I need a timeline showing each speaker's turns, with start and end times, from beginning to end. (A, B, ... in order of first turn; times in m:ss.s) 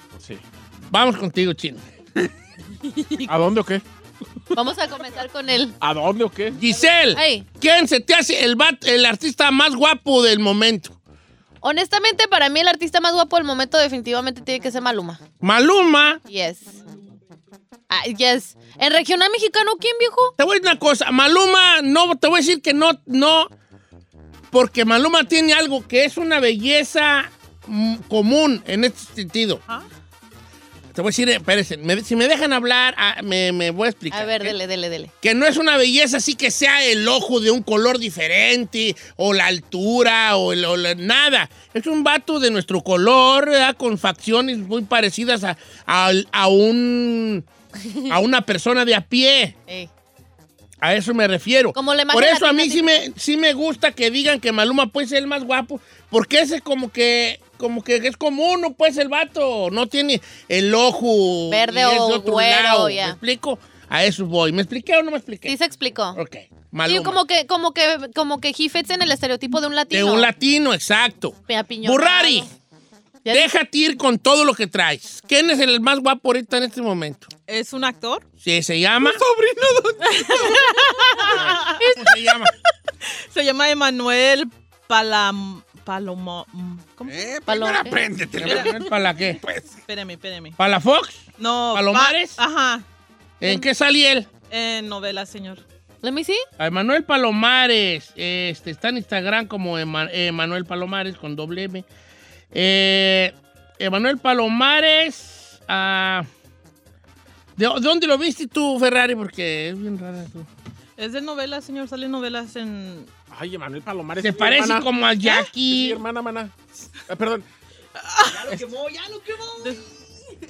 0:00.9-0:01.8 A
0:03.2-0:03.8 B
0:04.5-0:05.8 C
0:05.8-0:06.6 B
0:06.5-0:10.9 A
0:07.1-0:07.4 C
0:11.6-0:15.2 C
0:15.4-0:16.2 A
0:16.3-0:16.8 C
0:17.9-0:20.3 C
0:20.4-0:23.5 A
0:24.5-0:29.6 A
0:30.9-0:34.6 A
0:34.1-0:35.1 C
0:35.2-0:47.4 A
0:48.1-0:49.6 A
0:50.8-1:05.6 A
0:51.8-0:53.0 C
1:01.5-1:03.2 C
1:05.4-1:06.2 C
1:06.1-1:07.2 A
1:06.8-1:10.3 C
1:09.9-1:12.5 A
1:11.5-1:12.5 C
1:13.2-1:13.5 C
1:13.3-1:17.3 A
1:17.5-1:18.2 D
1:18.4-1:19.2 A
1:19.0-1:20.6 E
1:20.0-1:21.8 D
1:20.8-1:21.2 C
1:21.4-1:22.5 A
1:23.3-1:27.3 D
1:27.0-1:29.8 E
1:27.5-1:28.0 C
1:28.4-1:29.4 A
1:28.4-1:28.7 D
1:29.9-1:30.6 D
1:30.6-1:32.4 A
1:31.4-1:32.8 D
1:33.4-1:34.3 A
1:34.5-1:35.6 D
1:36.0-1:36.4 C
1:36.6-1:41.8 A
1:42.5-1:46.3 A
1:47.6-1:50.5 A
1:51.0-1:53.1 D
1:53.3-1:54.9 B
1:54.2-1:56.0 A
1:55.7-1:57.4 B
1:58.0-1:58.6 D
1:59.5-1:59.8 D